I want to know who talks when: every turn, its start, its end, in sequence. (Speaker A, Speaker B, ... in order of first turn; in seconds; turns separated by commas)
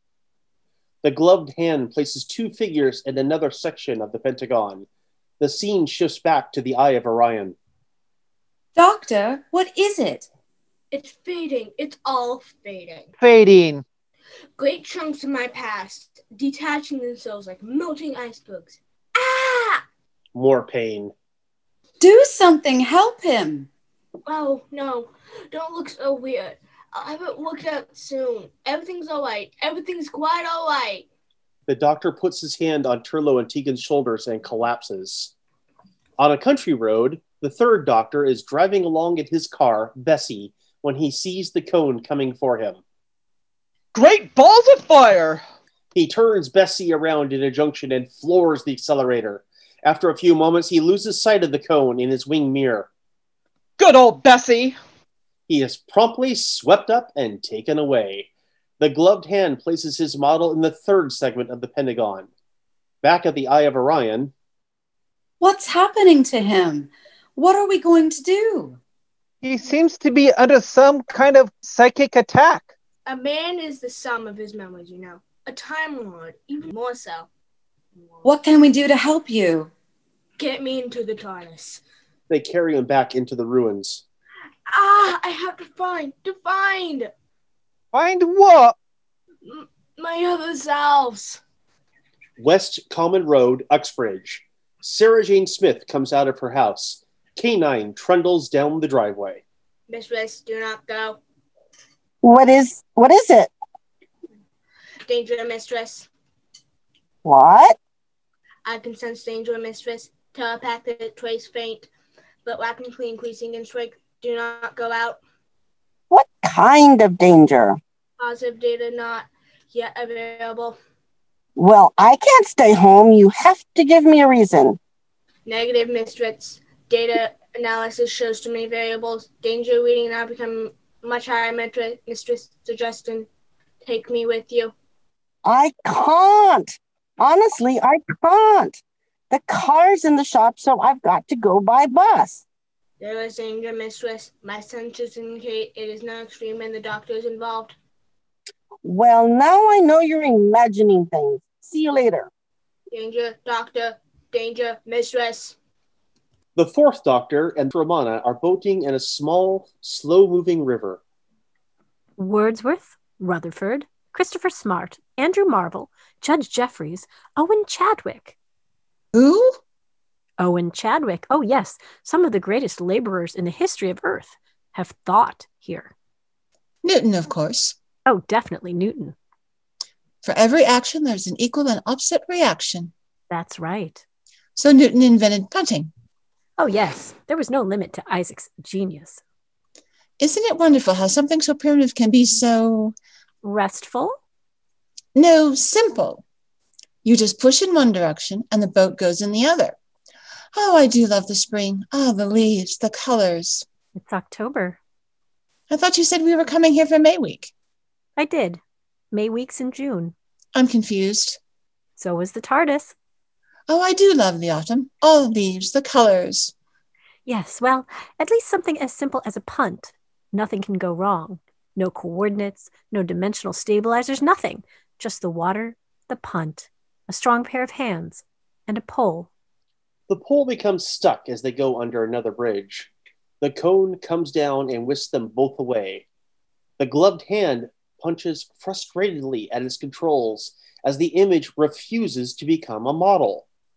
Speaker A: 1.0-4.8, Speaker A: 5.4-7.5, Speaker B: 8.8-10.3, Speaker C: 10.9-13.1, Speaker D: 13.2-13.8, Speaker C: 14.6-19.8, Speaker A: 20.3-21.1, Speaker B: 22.0-23.7, Speaker C: 24.2-31.1, Speaker A: 31.7-35.3, Speaker A: 36.2-42.8, Speaker E: 43.9-45.4, Speaker A: 45.9-52.9, Speaker E: 53.8-54.8, Speaker A: 55.5-58.3, Speaker A: 58.8-62.3, Speaker A: 63.0-64.3, Speaker B: 65.4-68.8, Speaker D: 69.4-72.7, Speaker C: 73.0-77.3, Speaker B: 78.2-79.7, Speaker C: 80.4-81.8, Speaker A: 82.3-84.0, Speaker C: 84.7-87.1, Speaker D: 87.9-88.8, Speaker C: 89.4-91.4, Speaker A: 92.4-99.4, Speaker C: 99.9-101.2, Speaker F: 102.2-103.5, Speaker C: 105.1-106.1, Speaker F: 107.2-107.8, Speaker C: 108.6-111.9, Speaker C: 112.4-115.2, Speaker F: 116.1-117.8, Speaker C: 118.2-120.8, Speaker F: 121.5-124.8, Speaker C: 125.5-133.3, Speaker C: 133.8-134.7, Speaker F: 135.4-138.8, Speaker F: 139.3-142.4, Speaker C: 143.0-147.8, Speaker F: 148.8-152.3, Speaker C: 152.9-155.6, Speaker A: 156.6-161.0, Speaker G: 162.2-168.3, Speaker H: 169.1-169.6, Speaker G: 170.4-175.9, Speaker H: 176.8-177.7, Speaker G: 178.1-179.2, Speaker H: 180.2-182.9, Speaker G: 183.3-184.0, Speaker H: 184.6-185.9, Speaker G: 186.6-189.2, Speaker H: 190.2-192.9, Speaker G: 193.4-194.2, Speaker H: 195.1-196.2, Speaker H: 197.0-199.8, Speaker H: 200.5-203.7, Speaker G: 203.9-204.8, Speaker H: 205.7-207.5, Speaker G: 208.2-208.6, Speaker G: 209.1-210.1, Speaker H: 210.5-211.4, Speaker G: 212.0-212.9, Speaker H: 213.7-216.5, Speaker G: 217.2-229.3, Speaker A: 230.1-232.9, Speaker A: 233.4-236.0, Speaker A: 236.8-243.4